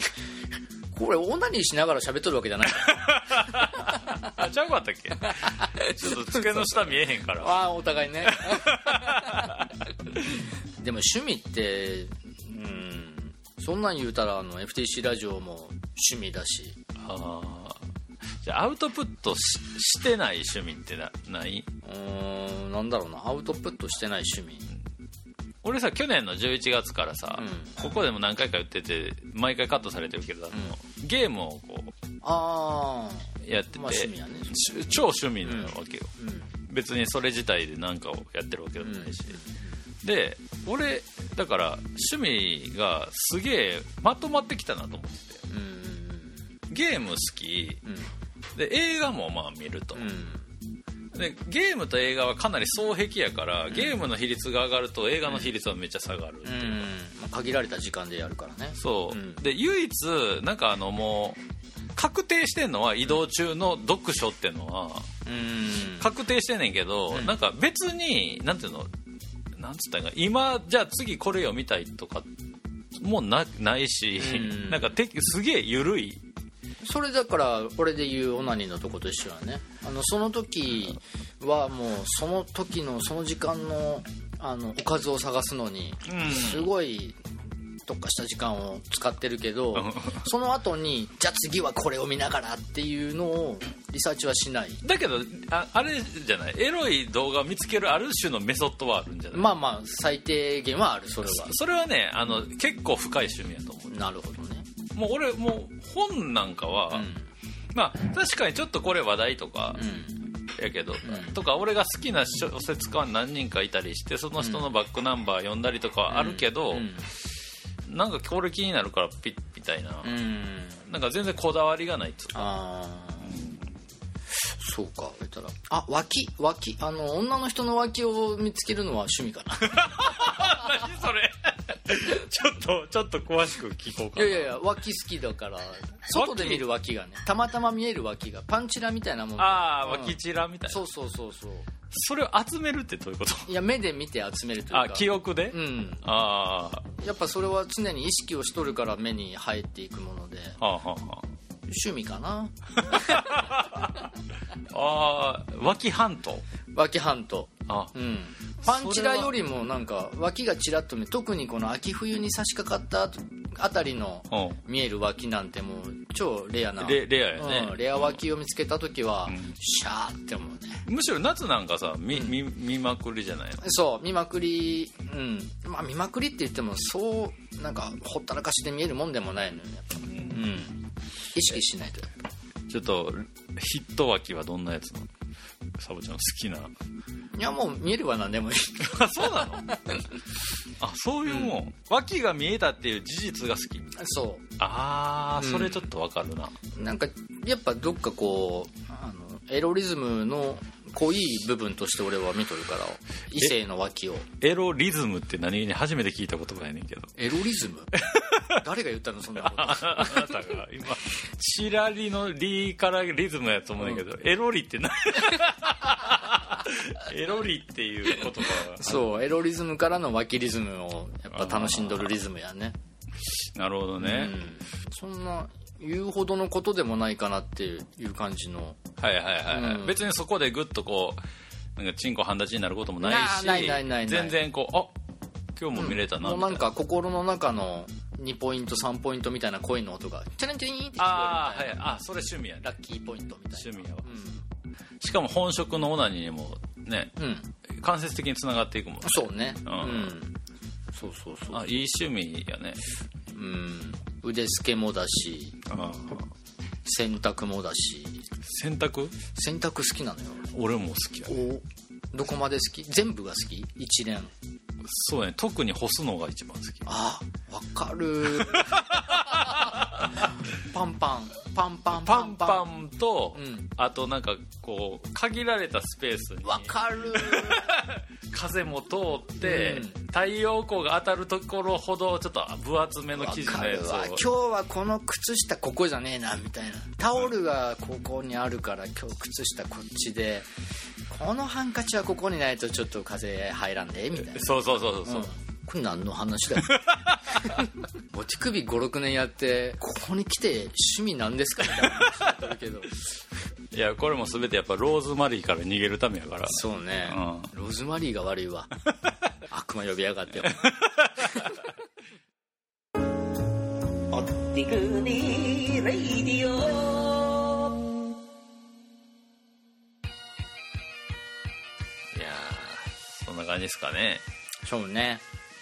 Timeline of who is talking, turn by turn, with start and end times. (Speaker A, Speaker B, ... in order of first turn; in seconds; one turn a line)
Speaker A: 0.9-4.3
Speaker B: 2.8-7.7
Speaker A: 5.4-6.7
Speaker A: 7.3-9.6
Speaker B: 8.2-9.7
Speaker A: 10.8-16.8
Speaker B: 17.0-17.8
Speaker B: 18.4-21.7
Speaker A: 21.8-24.7
Speaker B: 25.6-31.9
Speaker A: 27.3-27.9
Speaker A: 32.2-34.9
Speaker B: 33.4-39.4
Speaker A: 35.4-36.5
Speaker A: 38.8-39.7
Speaker B: 40.0-45.4
Speaker A: 45.5-46.5
Speaker B: 46.7-47.8
Speaker A: 47.8-48.1
Speaker B: 48.5-50.0
Speaker A: 49.9-50.5
Speaker B: 51.1-56.9
Speaker A: 53.7-54.0
Speaker A: 56.4-59.4
Speaker B: 58.8-61.4
Speaker B: 61.9-65.1
Speaker A: 65.2-66.1
Speaker B: 66.0-68.9
Speaker B: 69.5-72.3
Speaker B: 73.0-76.2
Speaker A: 74.2-74.9
Speaker A: 76.8-87.2
Speaker B: 86.0-86.7
Speaker A: 87.8-94.8
Speaker B: 89.7-90.2
Speaker B: 94.8-99.6
Speaker A: 99.3-101.5
Speaker B: 101.2-103.9
Speaker A: 103.9-104.7
Speaker B: 104.9-107.1
Speaker A: 106.9-107.3
Speaker B: 107.7-109.9
Speaker A: 109.7-110.2
Speaker B: 110.5-116.9
Speaker A: 111.0-111.3
Speaker A: 114.4-114.7
Speaker A: 116.1-117.1
Speaker B: 117.8-120.2
Speaker A: 120.0-120.8
Speaker B: 120.8-122.5
Speaker A: 122.3-123.4
Speaker A: 124.4-130.4
Speaker B: 129.7-134.6
Speaker A: 134.2-141.7
Speaker B: 136.1-136.6
Speaker B: 139.4-140.8
Speaker B: 141.9-143.5
Speaker A: 143.5-146.0
Speaker B: 144.7-146.9
Speaker A: 147.0-150.6
Speaker B: 150.6-151.3
Speaker A: 151.7-153.5
Speaker B: 152.9-153.9
Speaker B: 154.7-156.4
Speaker A: 156.7-170.8
Speaker B: 157.7-157.9
Speaker B: 158.6-159.3
Speaker B: 164.3-164.6
Speaker B: 166.8-168.2
Speaker B: 169.3-169.6
Speaker B: 170.8-173.7
Speaker A: 173.6-182.1
Speaker B: 182.7-185.1
Speaker B: 185.8-186.7
Speaker A: 187.3-190.1
Speaker B: 188.8-189.8
Speaker B: 190.8-194.0
Speaker A: 191.3-191.6
Speaker A: 193.9-194.5
Speaker B: 194.6-196.6
Speaker A: 195.4-195.9
Speaker A: 196.7-204.3
Speaker B: 204.4-207.1
Speaker A: 207.2-207.9
Speaker B: 208.0-208.5
Speaker A: 208.5-210.5
Speaker B: 209.4-219.0
Speaker A: 218.7-222.8
Speaker B: 221.3-222.1
Speaker B: 223.3-224.4
Speaker A: 224.0-228.8
Speaker B: 229.0-231.2
Speaker A: 229.5-230.0
Speaker B: 231.8-234.9
Speaker A: 233.0-234.4
Speaker B: 235.6-236.7
Speaker A: 235.7-241.9
Speaker B: 241.0-242.7
Speaker A: 242.6-244.4
Speaker B: 243.5-244.1
Speaker B: 245.0-250.2
Speaker A: 247.2-247.5
Speaker A: 249.0-250.4
Speaker A: 250.9-251.8
Speaker B: 251.5-252.8
Speaker A: 253.3-255.6
Speaker B: 255.7-256.3
Speaker A: 256.8-258.3
Speaker B: 258.4-259.2
Speaker A: 259.3-260.5
Speaker B: 260.5-261.4
Speaker A: 261.3-264.3
Speaker B: 264.8-266.9
Speaker A: 266.9-272.6
Speaker B: 268.4-270.1
Speaker B: 271.9-284.2
Speaker A: 273.3-273.7
Speaker A: 276.4-277.8
Speaker A: 279.4-280.0
Speaker A: 283.1-290.5
Speaker A: 291.1-303.0
Speaker B: 294.2-295.3
Speaker B: 296.7-297.5
Speaker B: 303.7-307.5
Speaker A: 306.5-308.7
Speaker A: 309.5-310.7
Speaker B: 310.4-311.4
Speaker C: 314.1-317.5
Speaker B: 322.1-324.2
Speaker A: 324.6-325.2